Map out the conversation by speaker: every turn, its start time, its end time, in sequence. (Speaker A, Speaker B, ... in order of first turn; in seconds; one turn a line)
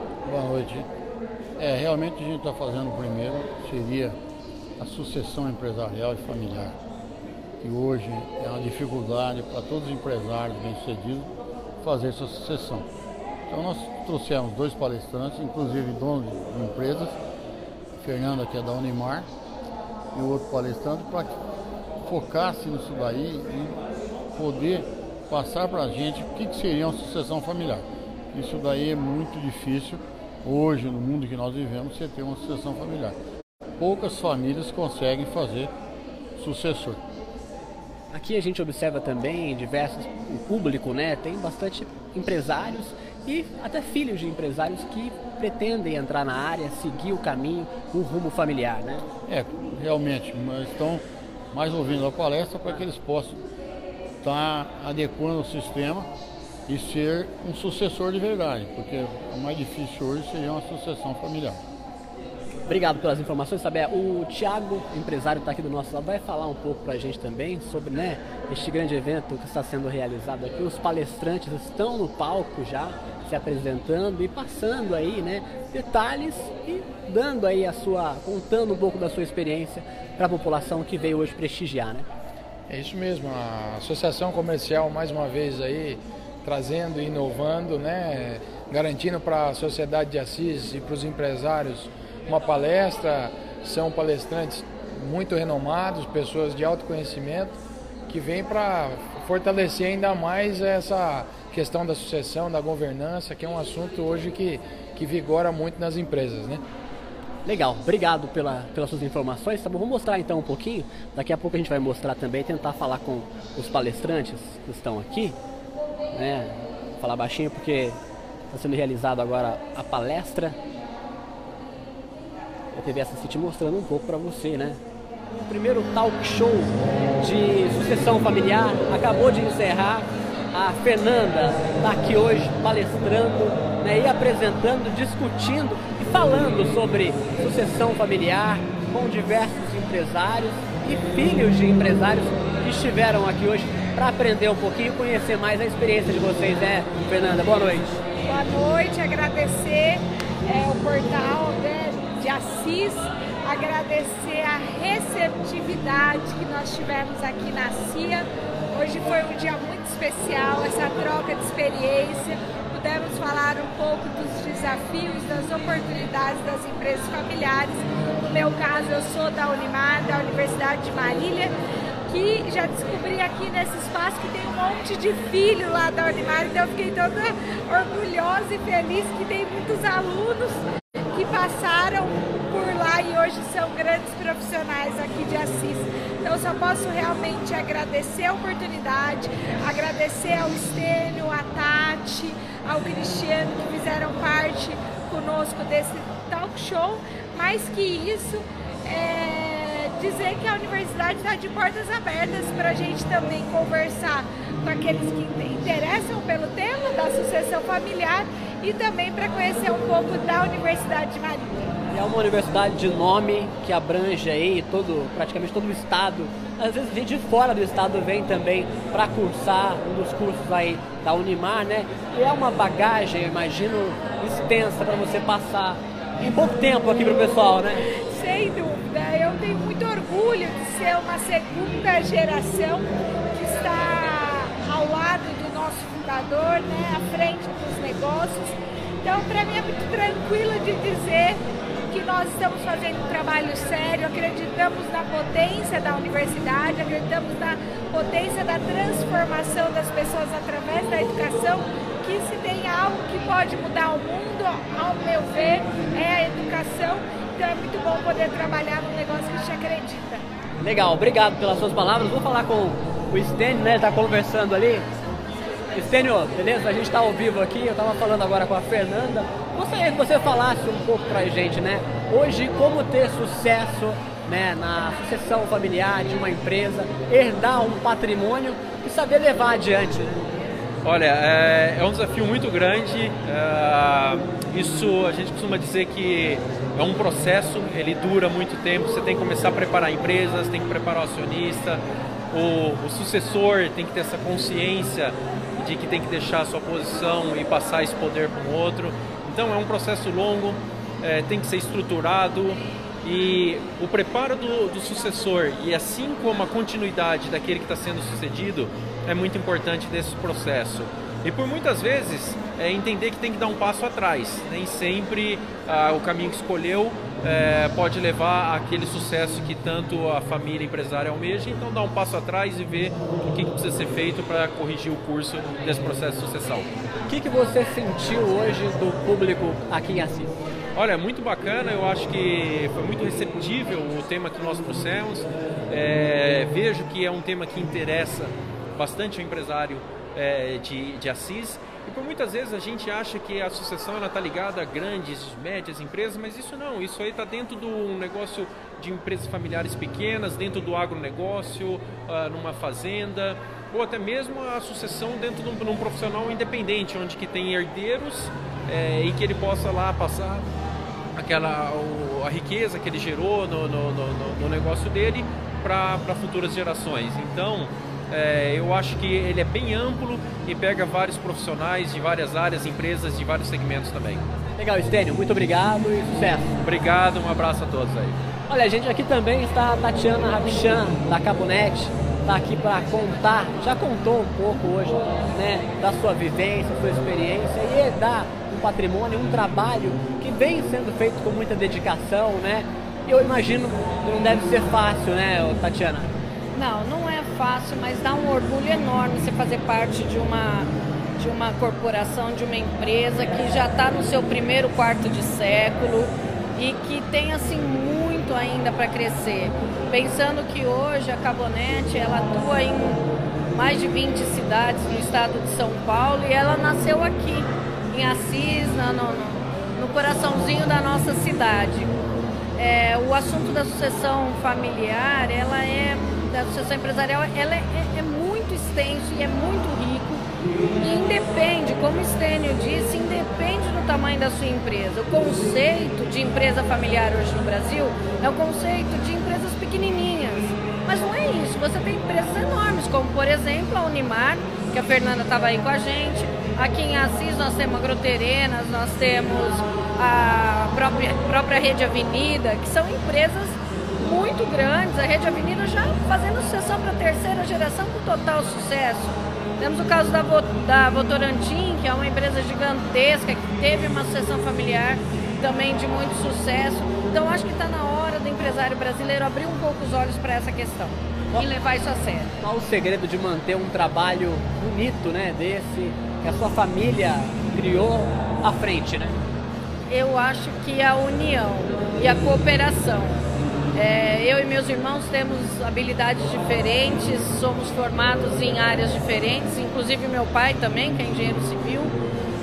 Speaker A: 0.2-0.9
Speaker A: 1.6-4.2
Speaker A: 4.8-6.8
Speaker A: 7.6-12.9
Speaker A: 13.5-17.2
Speaker A: 18.0-19.3
Speaker A: 20.1-21.4
Speaker A: 22.0-23.8
Speaker A: 24.4-33.2
Speaker A: 33.8-35.7
Speaker A: 36.4-37.0
Speaker B: 38.1-49.0
Speaker A: 49.3-53.4
Speaker A: 54.2-56.1
Speaker A: 56.7-61.6
Speaker B: 62.7-82.1
Speaker C: 82.7-106.6
Speaker B: 107.5-115.4
Speaker B: 116.1-118.0
Speaker B: 118.5-120.6
Speaker B: 122.7-124.8
Speaker B: 125.4-148.0
Speaker D: 148.2-171.5
Speaker D: 172.1-211.7
Speaker B: 211.9-227.8
Speaker D: 228.1-260.2
Speaker B: 260.6-264.9
Speaker B: 265.7-280.3
Speaker E: 280.8-326.7
Speaker B: 327.1-330.3
Speaker E: 330.8-360.5
Speaker E: 361.2-374.2
Speaker B: 374.6-376.6
Speaker E: 376.6-378.2
Speaker B: 378.5-396.2
Speaker F: 396.5-422.0
Speaker F: 422.6-430.3
Speaker F: 430.8-472.4
Speaker B: 472.4-479.2
Speaker F: 479.9-492.0